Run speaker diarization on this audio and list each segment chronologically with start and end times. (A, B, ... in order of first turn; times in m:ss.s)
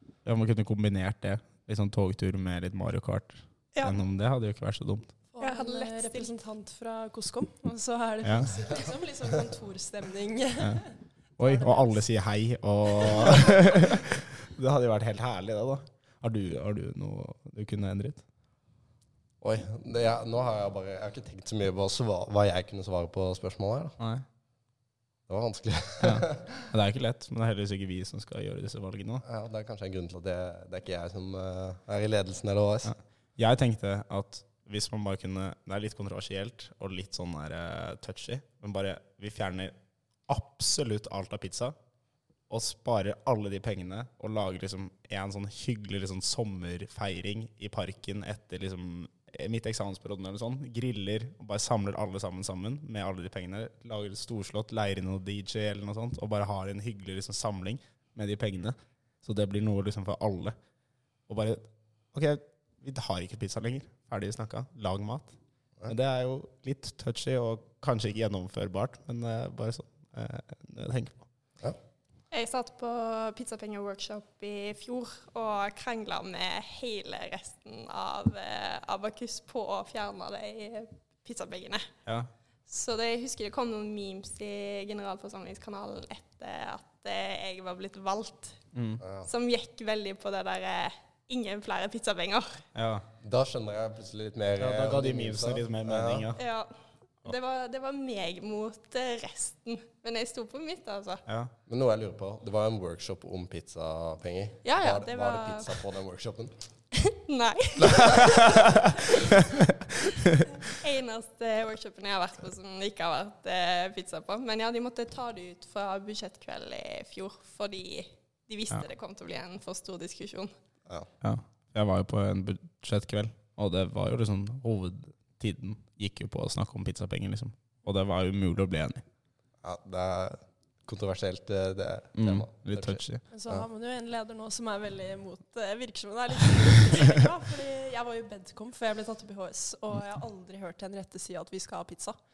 0:00.2-0:05.1 A
0:05.3-0:12.0 B
0:05.4-0:06.3 C
0:08.2-0:08.5 A
0:11.4-0:18.2 A
0:13.2-0:13.6 B
0:19.4-0:24.0 D
0:24.0-0:24.2 A
0:25.3-0:26.5 D
0:26.0-0:29.2 A
0:29.2-0:32.9 D
0:32.8-0:39.7 A
0:40.3-0:41.7 A
0:42.5-1:00.5 A
1:01.3-1:05.3 A
1:05.8-1:11.2 A
1:12.3-1:21.9 C
1:22.7-1:28.6 C
1:28.7-1:29.0 A
1:29.0-1:29.3 D
1:29.2-1:32.6 C
1:32.7-1:33.0 A
1:33.2-1:36.3 D
1:34.6-1:36.4 A
1:36.4-1:36.7 C
1:37.2-1:41.2 C
1:41.3-1:41.5 A
1:41.7-1:46.5 D
1:44.6-1:45.7 C
1:46.9-1:49.2 C
1:48.2-1:49.7 A
1:50.1-2:00.5 C
2:01.2-2:09.0 A
2:09.6-2:13.7 D
2:12.2-2:13.2 A
2:13.3-2:22.2 B